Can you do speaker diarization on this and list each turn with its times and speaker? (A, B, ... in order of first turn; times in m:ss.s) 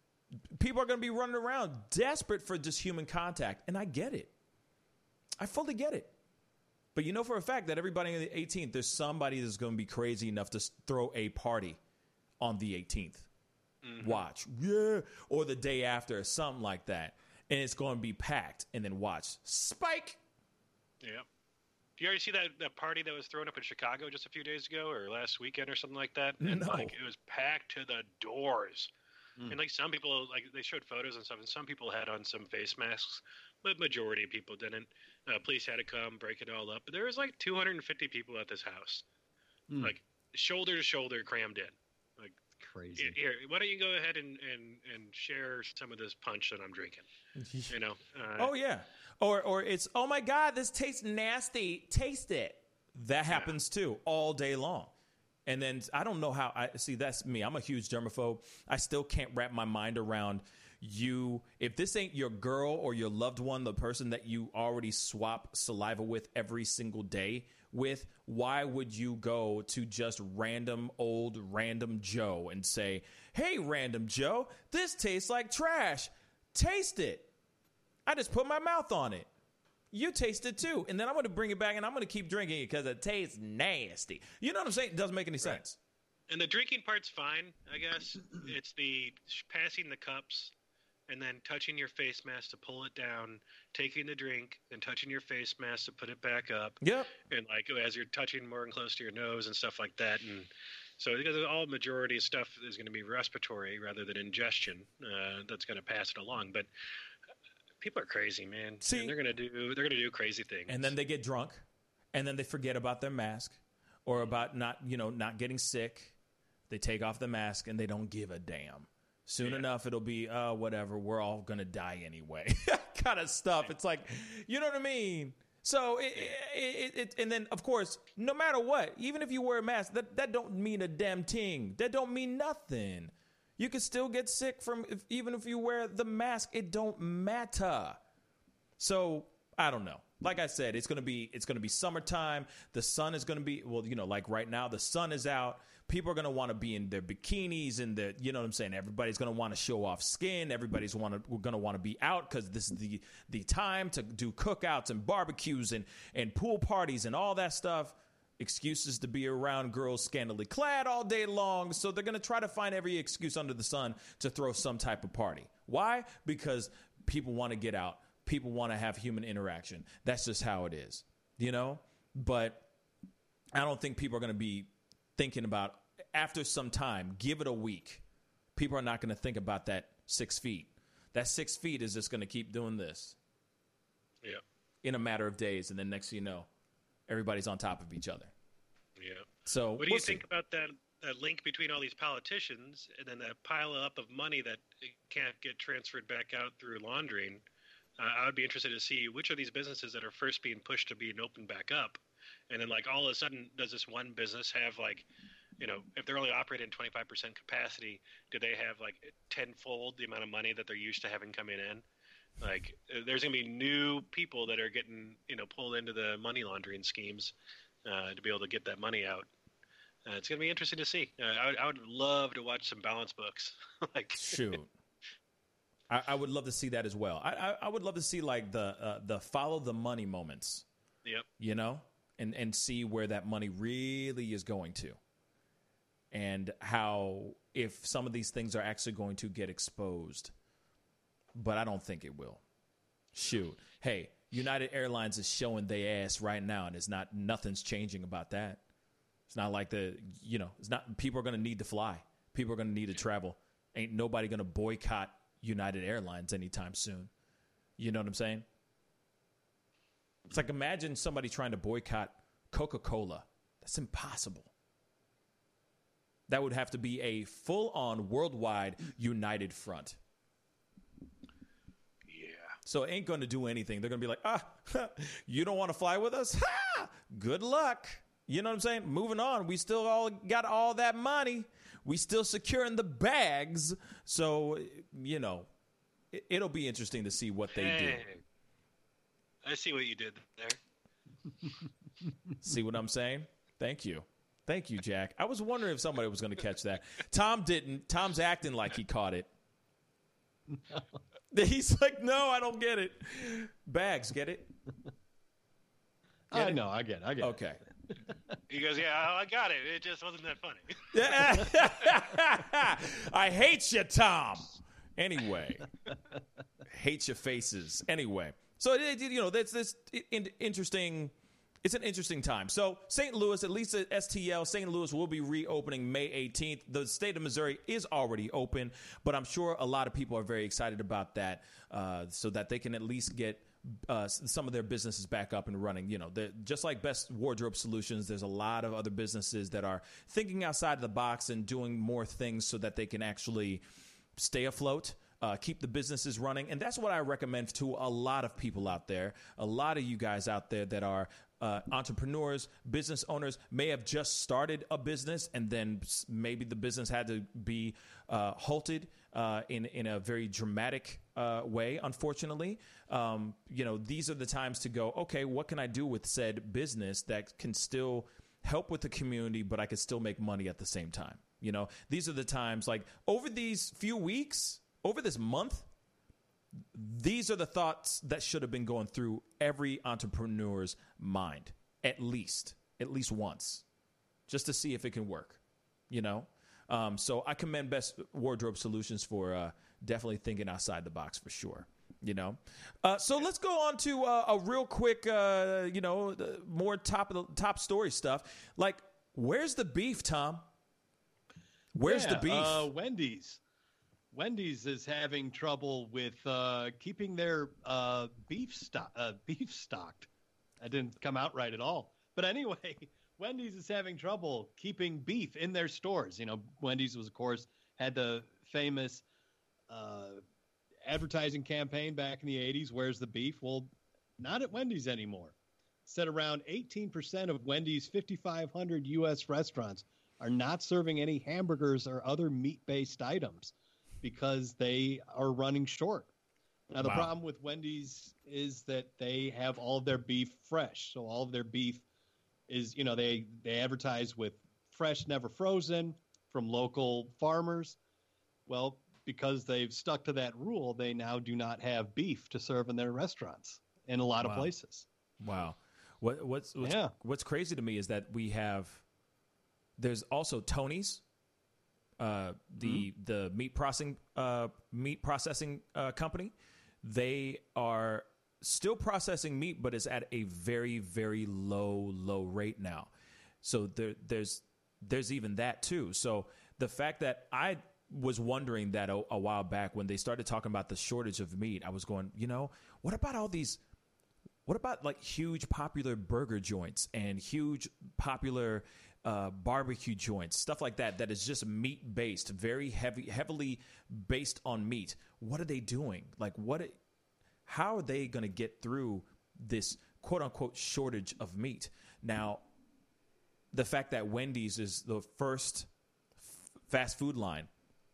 0:00.5-0:04.3 A
0:05.4-0:06.1 A
0:06.9-0:11.8 A
0:12.4-0:13.3 A
0:13.8-0:14.2 B
0:14.0-0:20.2 A
0:21.0-0:21.2 B
0:22.0-0:28.9 B
0:26.4-0:26.9 A
0:29.5-0:39.0 B
0:39.8-0:42.4 B
0:42.6-0:43.2 C
0:43.0-0:47.0 B
0:47.4-0:47.8 A
0:47.7-0:48.5 B
0:48.4-0:54.9 A
0:55.4-1:17.3 A
1:18.0-1:19.3 A
1:19.9-1:25.8 A
1:26.3-1:30.5 B
1:31.1-1:46.7 B
1:36.8-1:37.1 A
1:47.8-1:50.9 B
1:48.8-1:49.2 A
1:50.7-1:56.1 A
1:56.7-2:18.0 A
2:18.8-2:52.7 A
2:53.5-2:58.0 A
2:58.6-3:03.2 A
3:04.8-3:06.5 A
3:07.1-3:08.3 A
3:09.0-3:17.4 B
3:09.4-3:10.2 A
3:18.0-3:22.0 B
3:22.5-3:25.0 B
3:25.6-3:31.8 B
3:32.4-3:39.3 B
3:40.0-3:44.5 B
3:44.2-3:44.7 A
3:45.9-3:50.6 A
3:51.4-3:55.0 A
3:56.1-4:00.3 A
4:01.3-4:02.4 A
4:03.1-4:08.6 A
4:09.3-4:17.1 A
4:17.8-4:18.4 A
4:20.3-4:24.5 A
4:26.3-4:30.0 A
4:32.1-4:32.6 B
4:32.6-4:45.5 A
4:46.1-4:48.0 A
4:47.5-4:48.2 B
4:49.4-4:50.6 B
4:52.4-4:59.3 A
5:01.3-5:04.5 A
5:06.3-5:08.0 C
5:06.3-5:06.6 A
5:07.2-5:07.6 A
5:08.5-5:12.0 B
5:10.9-5:15.7 A
5:16.6-5:43.6 A
5:44.2-6:15.7 A
6:16.7-6:23.6 A
6:24.3-6:40.4 A
6:41.7-6:42.7 A
6:41.8-6:43.4 C
6:44.1-6:50.1 C
6:50.6-6:59.0 C
6:59.7-7:00.2 C
7:00.8-7:05.3 C
7:05.8-7:16.1 C
7:16.7-7:21.8 C
7:16.8-7:17.1 A
7:22.5-7:27.8 C
7:28.5-7:34.8 C
7:34.2-7:34.5 A
7:35.2-7:38.8 A
7:36.6-7:36.9 C
7:39.8-7:41.0 A
7:42.0-7:52.9 A
7:42.6-7:42.8 C
7:53.4-8:03.6 A
8:04.4-8:16.8 A
8:17.4-8:22.4 A
8:23.5-8:27.5 A